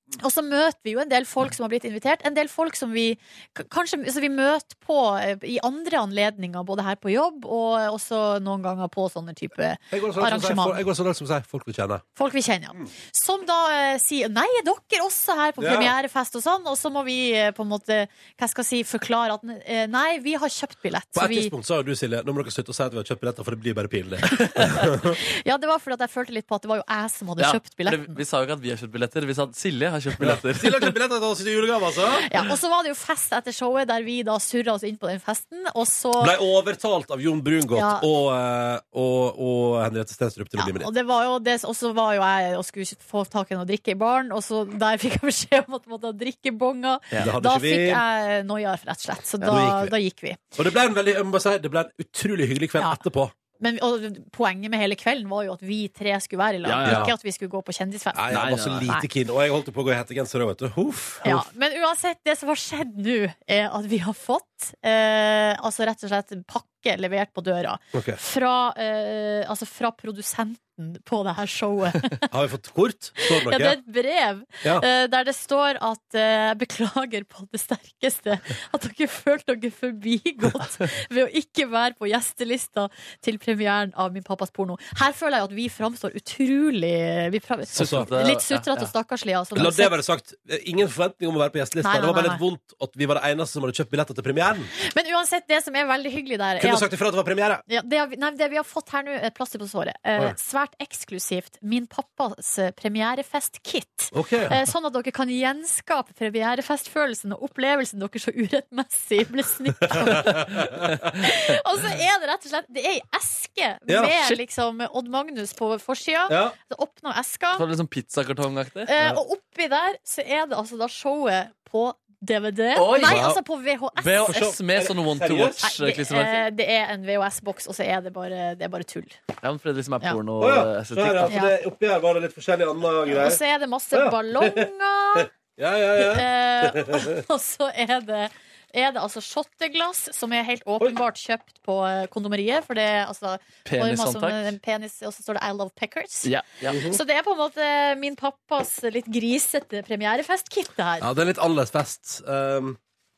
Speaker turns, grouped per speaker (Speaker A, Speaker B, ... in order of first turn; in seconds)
Speaker A: 0.2-10.8, 12.2-21.5, 25.1-28.2, 32.3-36.3, 37.7-38.0, 40.6-50.4, 53.6-59.0, 61.2-72.3, 73.2-89.9, 91.8-92.4, 94.8-96.9, 97.7-117.6, 118.9-124.5, 125.6-129.2, 131.3-131.5, 133.1-135.3, 136.0-146.3, 146.8-151.1
Speaker B: 9.9-12.0, 15.6-15.9, 21.1-25.2, 30.2-32.3, 36.2-40.9, 47.2-48.0, 49.5-49.9, 50.5-53.3, 56.8-57.1, 58.1-61.4, 67.9-68.2, 72.3-73.8, 87.7-88.1, 89.5-94.7, 96.6-97.6, 104.1-104.6, 109.9-110.9, 113.9-114.4, 116.3-116.5, 123.0-123.3, 124.3-125.6, 130.4-133.4, 133.9-137.2, 146.7-147.0, 151.0-152.8
Speaker C: 27.4-30.9, 56.6-57.1, 58.3-58.9, 87.8-88.9, 117.5-119.1, 122.7-123.4, 124.0-126.4, 129.4-131.3, 143.6-144.5, 146.2-146.9